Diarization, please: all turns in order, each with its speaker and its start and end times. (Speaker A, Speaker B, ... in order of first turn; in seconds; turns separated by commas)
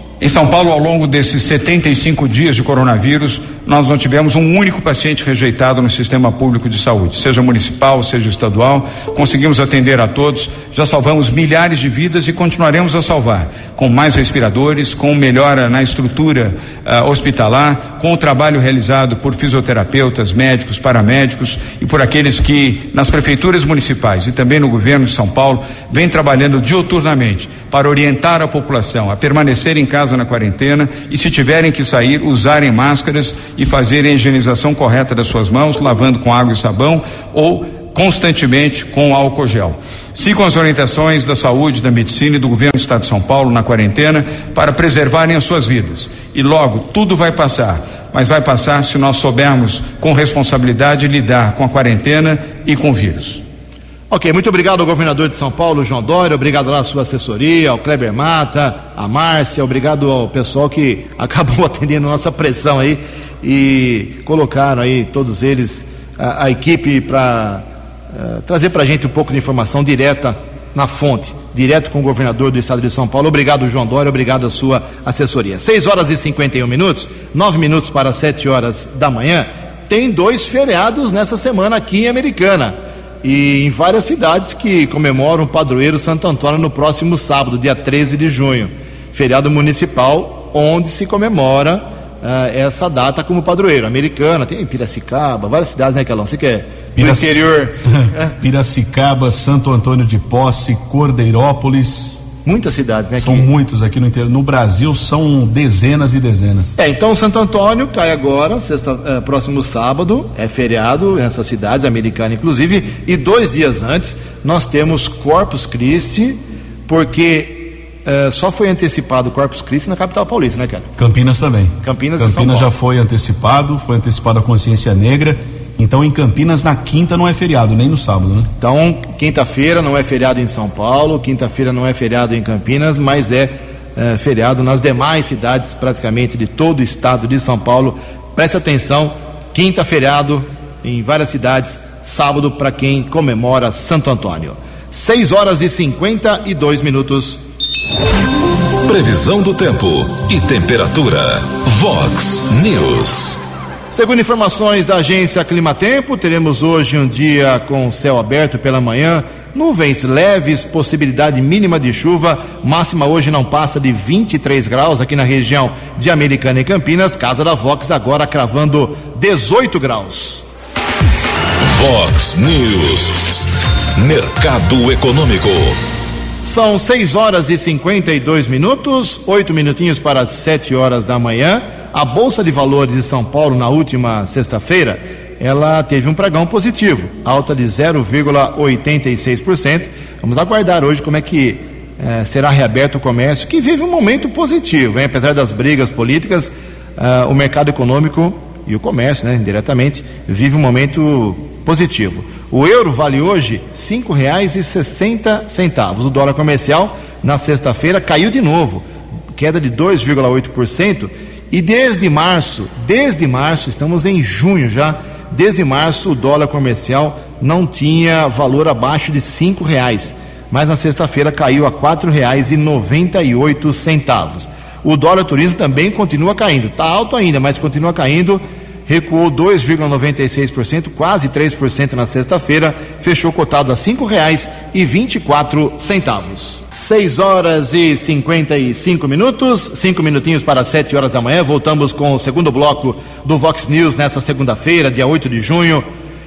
Speaker A: 0.2-53.4, Speaker B: 54.1-98.3, Speaker C: 97.0-102.2, Speaker B: 102.4-103.5, Speaker C: 103.2-106.7, Speaker B: 106.8-120.9, Speaker C: 121.0-128.5, Speaker B: 121.8-122.7, Speaker B: 128.6-147.4, Speaker D: 148.8-153.4, Speaker B: 153.9-170.4, Speaker D: 171.6-175.8, Speaker B: 176.4-245.8